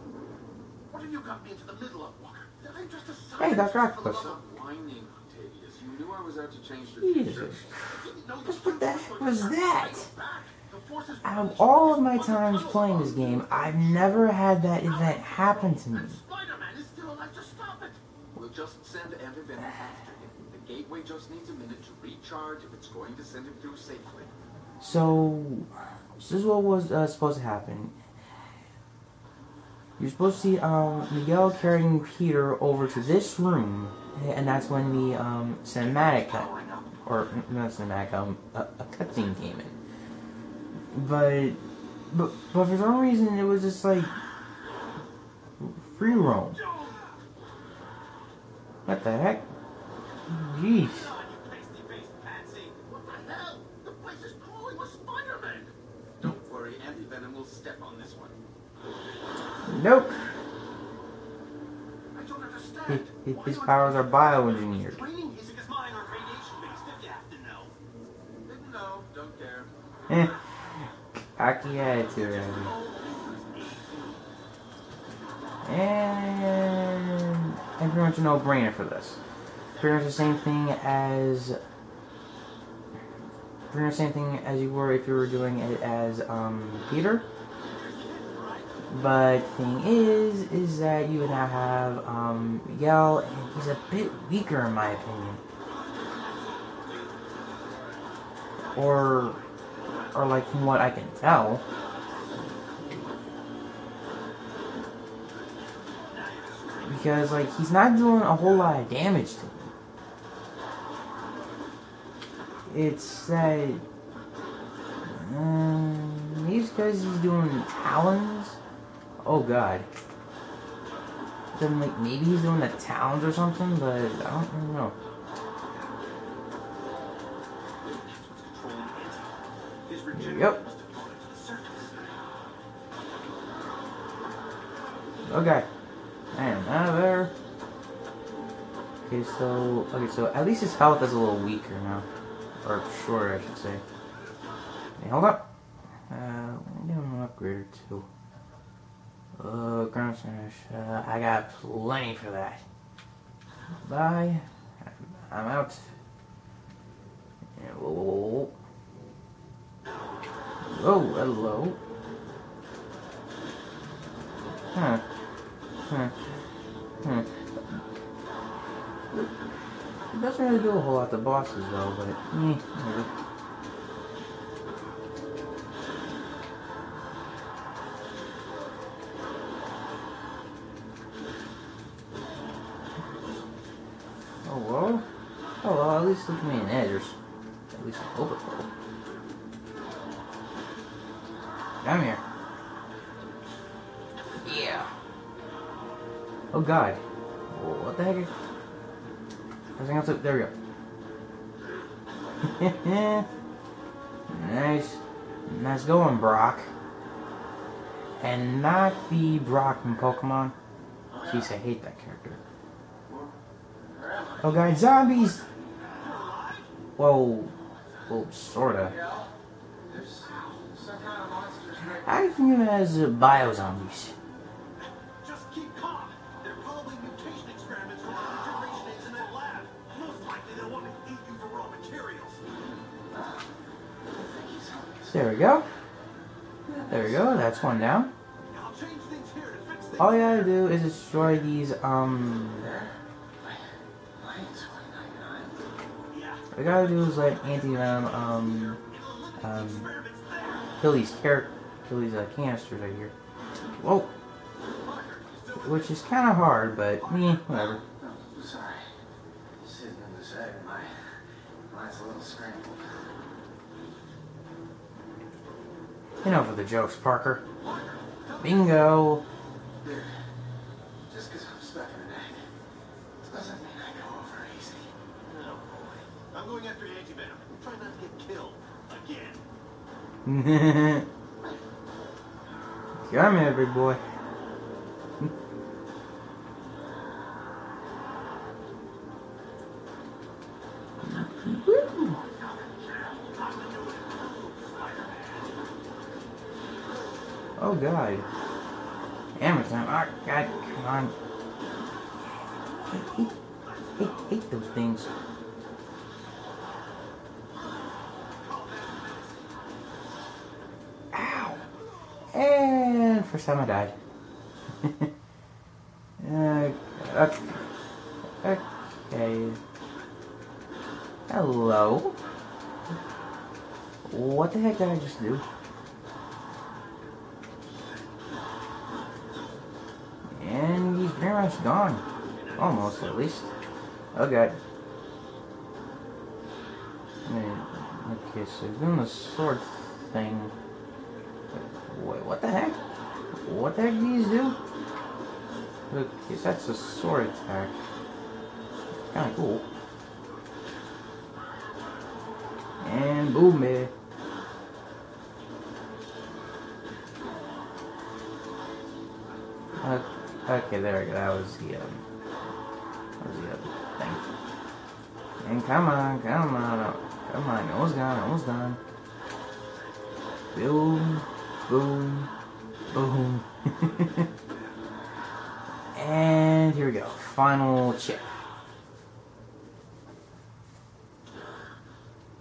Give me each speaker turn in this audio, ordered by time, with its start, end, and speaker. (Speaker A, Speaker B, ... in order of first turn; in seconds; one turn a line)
Speaker A: 0.9-4.4
Speaker B: 3.4-4.4
Speaker C: 4.2-7.6
Speaker B: 6.9-10.1
Speaker A: 7.9-18.0
Speaker B: 11.2-16.2
Speaker C: 18.4-24.3
Speaker B: 24.8-27.9
Speaker B: 30.0-36.5
Speaker A: 31.3-31.9
Speaker A: 32.6-33.3
Speaker A: 35.8-37.0
Speaker B: 37.0-39.8
Speaker B: 40.9-44.1
Speaker B: 45.6-46.6
Speaker A: 46.0-47.2
Speaker B: 48.9-49.5
Speaker B: 50.3-51.1
Speaker A: 50.8-55.7
Speaker C: 56.2-58.3
Speaker B: 59.7-60.2
Speaker A: 62.1-67.8
Speaker B: 62.9-65.0
Speaker C: 68.5-69.7
Speaker B: 70.1-72.8
Speaker A: 72.0-74.2
Speaker B: 75.6-79.2
Speaker A: 79.7-80.5
Speaker B: 79.8-81.6
Speaker B: 83.7-87.3
Speaker A: 87.7-88.7
Speaker B: 88.9-95.4
Speaker B: 98.7-99.4
Speaker A: 98.8-99.4
Speaker B: 100.1-101.6
Speaker A: 106.1-107.1
Speaker B: 106.8-109.7
Speaker B: 112.7-113.8
Speaker B: 115.1-118.6
Speaker B: 119.2-119.9
Speaker B: 121.5-125.0
Speaker A: 127.8-132.1
Speaker B: 130.2-130.6
Speaker B: 135.3-135.7
Speaker B: 136.3-137.3
Speaker B: 139.0-142.1
Speaker B: 142.6-143.8
Speaker B: 145.0-145.5
Speaker B: 146.1-148.1
Speaker B: 149.4-152.6
Speaker B: 153.8-155.9
Speaker B: 157.6-158.5
Speaker B: 160.7-161.8
Speaker B: 164.7-165.0
Speaker B: 165.9-166.2
Speaker B: 167.0-167.3
Speaker B: 170.1-173.1
Speaker B: 184.4-185.1
Speaker B: 185.6-187.2
Speaker B: 187.7-188.7
Speaker B: 191.8-192.2
Speaker B: 194.4-194.9
Speaker B: 196.5-198.3
Speaker B: 199.8-200.5
Speaker B: 202.4-203.3
Speaker B: 204.3-206.7
Speaker B: 208.2-210.5
Speaker A: 211.1-211.4
Speaker B: 211.2-212.4
Speaker C: 213.9-214.5
Speaker B: 214.4-215.4
Speaker A: 214.4-215.4
Speaker A: 216.0-216.7
Speaker B: 217.0-219.0
Speaker C: 218.8-219.3
Speaker C: 219.9-222.3
Speaker B: 221.9-224.2
Speaker A: 224.8-232.4
Speaker C: 233.1-233.4
Speaker C: 234.1-235.2
Speaker B: 235.1-235.7
Speaker B: 236.8-238.1
Speaker A: 238.5-240.6
Speaker B: 240.0-242.8
Speaker C: 244.2-245.6
Speaker A: 246.1-250.7
Speaker B: 246.5-248.8
Speaker B: 249.4-249.9
Speaker B: 250.8-253.1
Speaker B: 253.8-254.1
Speaker A: 254.8-256.1
Speaker B: 255.6-257.8
Speaker A: 257.0-257.8
Speaker C: 258.0-258.9
Speaker C: 259.6-260.9
Speaker C: 261.7-263.1
Speaker B: 266.2-267.4
Speaker A: 267.6-268.8
Speaker B: 268.4-269.2
Speaker C: 269.8-270.1
Speaker C: 271.1-272.4
Speaker C: 273.2-274.9
Speaker A: 275.2-279.4
Speaker B: 280.2-281.1
Speaker B: 283.0-284.0
Speaker B: 291.0-292.2
Speaker A: 292.4-295.5
Speaker B: 297.6-298.3
Speaker B: 299.4-301.1
Speaker B: 302.4-303.3
Speaker A: 302.9-304.4
Speaker B: 304.0-305.1
Speaker A: 308.4-309.5
Speaker B: 311.1-311.7
Speaker B: 312.3-313.9
Speaker B: 314.8-315.1
Speaker B: 316.2-317.6
Speaker B: 318.4-319.6
Speaker B: 321.3-322.2
Speaker B: 324.1-325.4
Speaker B: 330.3-332.0
Speaker A: 332.3-333.4
Speaker B: 332.6-333.5
Speaker B: 334.1-334.6
Speaker B: 337.2-340.5
Speaker B: 341.5-342.8
Speaker B: 343.4-344.6
Speaker B: 345.9-347.8
Speaker B: 349.1-349.6
Speaker B: 352.8-353.9
Speaker B: 359.8-362.0
Speaker B: 363.2-364.3
Speaker B: 365.4-368.8
Speaker B: 370.5-372.3
Speaker B: 372.9-374.3
Speaker B: 375.9-378.3